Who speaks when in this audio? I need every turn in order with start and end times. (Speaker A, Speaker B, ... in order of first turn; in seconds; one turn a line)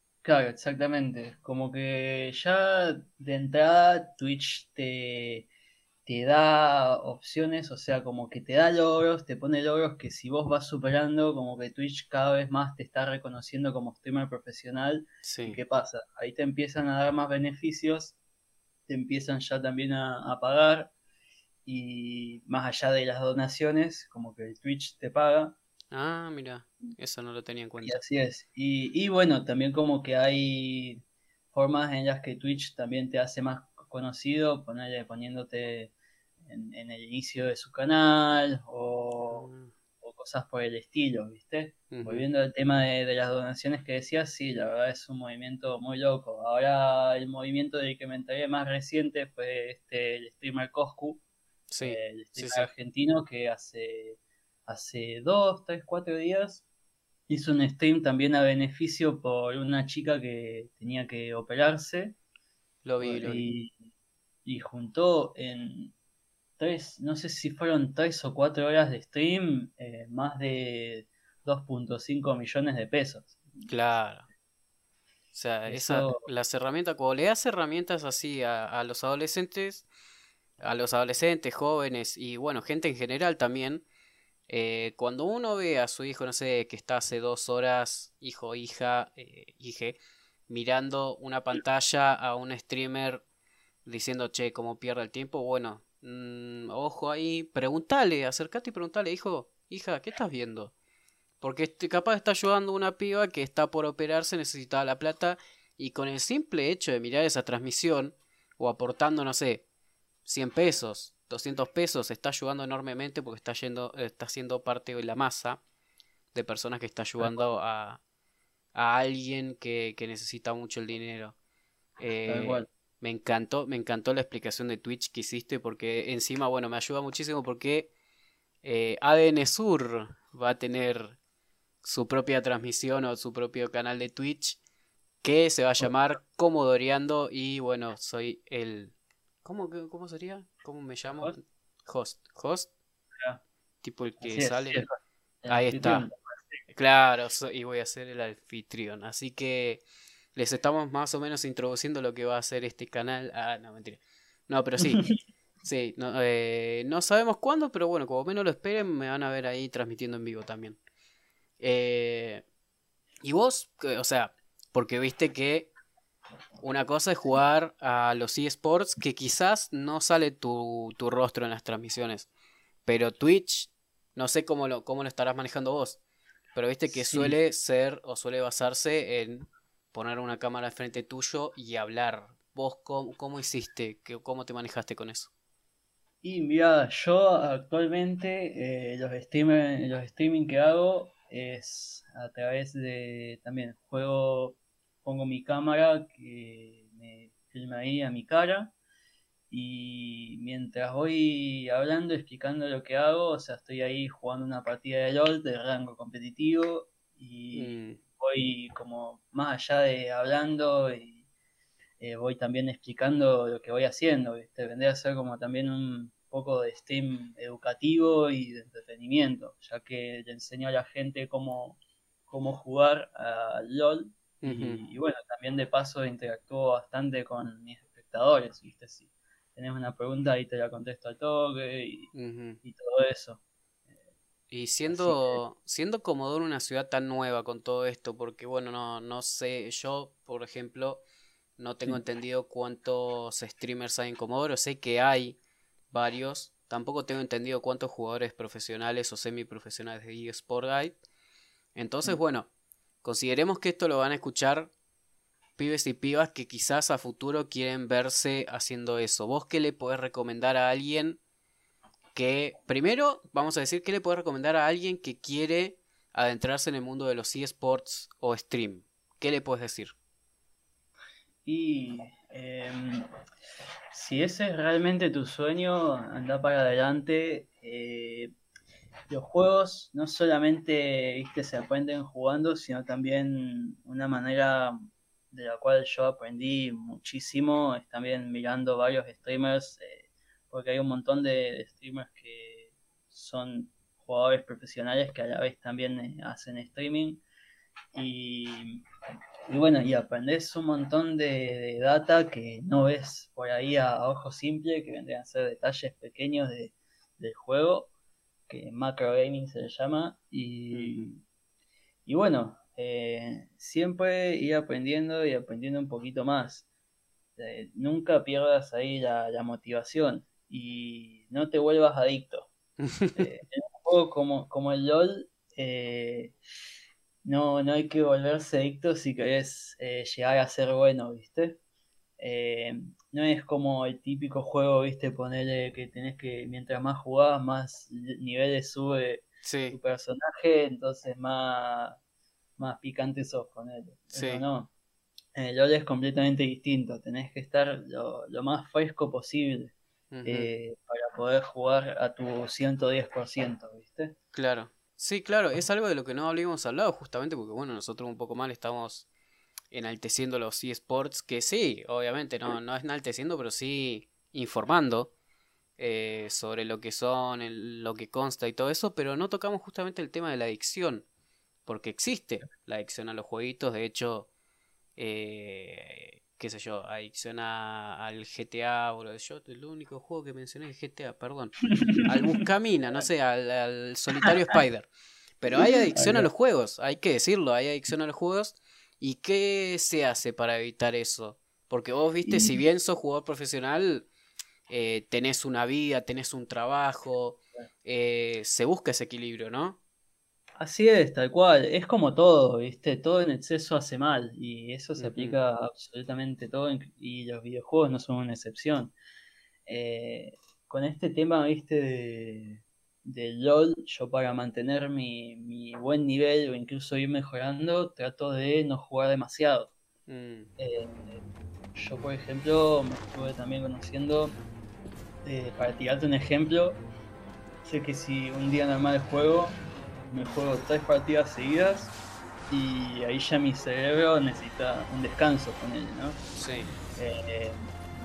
Speaker A: 0.2-5.5
Speaker A: 6.1-18.2
Speaker B: 15.2-15.6
Speaker A: 18.9-20.9
Speaker A: 21.7-25.6
Speaker B: 25.9-28.0
Speaker A: 27.8-31.0
Speaker A: 31.5-39.5
Speaker B: 39.3-39.7
Speaker A: 40.0-51.2
Speaker B: 41.9-42.3
Speaker B: 51.7-52.7
Speaker A: 51.8-56.6
Speaker A: 57.3-62.2
Speaker B: 62.8-63.5
Speaker A: 63.0-63.7
Speaker A: 64.5-65.9
Speaker A: 66.6-73.7
Speaker B: 73.7-74.3
Speaker B: 75.3-79.9
Speaker A: 75.7-76.2
Speaker B: 80.6-83.8
Speaker B: 84.5-93.2
Speaker B: 93.9-100.7
Speaker B: 101.4-109.7
Speaker B: 110.3-115.6
Speaker B: 116.3-118.0
Speaker A: 117.2-117.5
Speaker B: 118.8-121.3
Speaker B: 122.0-127.9
Speaker A: 122.3-122.7
Speaker B: 128.6-131.2
Speaker B: 131.8-134.6
Speaker B: 135.2-142.7
Speaker B: 143.8-144.9
Speaker A: 144.2-144.9
Speaker A: 145.4-146.4
Speaker B: 145.5-146.1
Speaker B: 146.7-149.8
Speaker B: 150.3-155.1
Speaker B: 155.7-160.8
Speaker B: 161.6-162.4
Speaker B: 163.2-165.7
Speaker B: 166.6-172.3
Speaker B: 172.9-176.0
Speaker B: 176.6-185.3
Speaker A: 176.9-177.4
Speaker A: 186.2-198.7
Speaker A: 199.5-211.2
Speaker B: 207.5-208.0
Speaker A: 212.0-232.1
Speaker B: 224.4-224.8
Speaker B: 232.1-232.6
Speaker A: 232.6-233.4
Speaker B: 234.5-241.0
Speaker A: 234.9-235.4
Speaker B: 241.6-245.4
Speaker B: 245.9-251.0
Speaker B: 251.8-252.5
Speaker B: 253.0-254.7
Speaker B: 255.6-261.2
Speaker B: 262.1-269.9
Speaker A: 271.4-273.1
Speaker A: 273.9-278.3
Speaker A: 279.1-297.2
Speaker A: 297.9-298.8
Speaker A: 299.5-307.9
Speaker A: 308.5-311.2
Speaker B: 310.7-311.1
Speaker A: 312.1-316.7
Speaker A: 317.4-322.5
Speaker B: 322.8-323.2
Speaker A: 323.2-326.4
Speaker A: 327.2-331.6
Speaker A: 332.2-342.0
Speaker B: 339.4-339.8
Speaker A: 342.6-344.7
Speaker B: 344.1-344.4
Speaker A: 345.4-349.7
Speaker B: 350.1-350.5
Speaker A: 350.2-354.2
Speaker B: 354.3-359.1
Speaker B: 359.7-365.1
Speaker B: 365.8-371.1
Speaker B: 371.7-374.3
Speaker B: 375.0-381.6
Speaker A: 381.9-382.4
Speaker B: 382.1-394.1
Speaker A: 385.6-386.3
Speaker A: 392.3-392.6
Speaker B: 394.7-399.8
Speaker A: 400.6-408.9
Speaker B: 405.0-405.4
Speaker A: 409.7-419.7
Speaker B: 420.1-420.5
Speaker A: 420.6-421.2
Speaker A: 421.8-424.4
Speaker A: 425.2-426.8
Speaker A: 427.6-431.9
Speaker A: 432.5-436.2
Speaker B: 436.4-436.7
Speaker A: 437.0-437.7